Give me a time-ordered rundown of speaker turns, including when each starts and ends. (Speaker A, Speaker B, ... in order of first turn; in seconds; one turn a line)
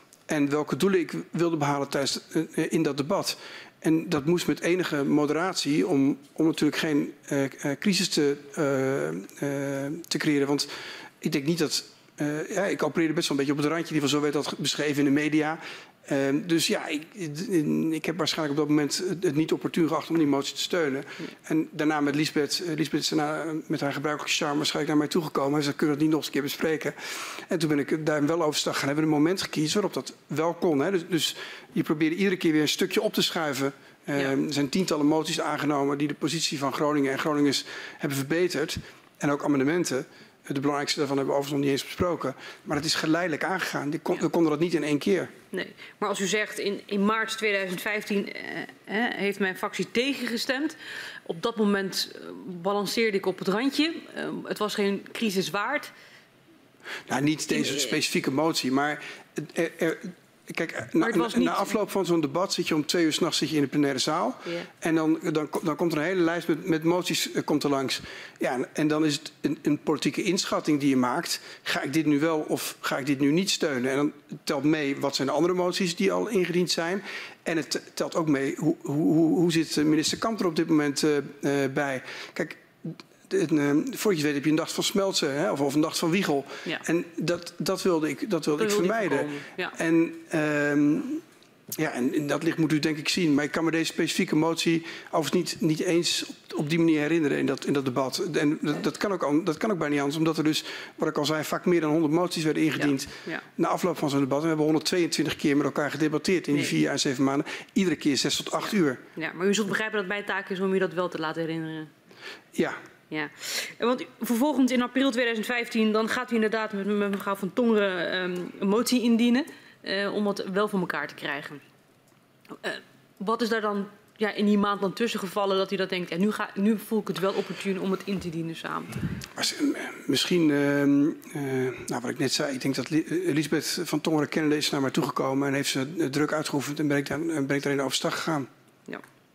Speaker A: 0.3-45.3
Speaker B: 45.5-55.9
Speaker A: 57.1-91.2
Speaker B: 57.5-57.9
Speaker B: 61.0-61.7
Speaker B: 88.6-89.8
Speaker A: 91.8-109.0
Speaker B: 102.8-103.4
Speaker B: 109.2-111.9
Speaker B: 113.1-121.6
Speaker B: 122.6-129.0
Speaker A: 129.3-138.5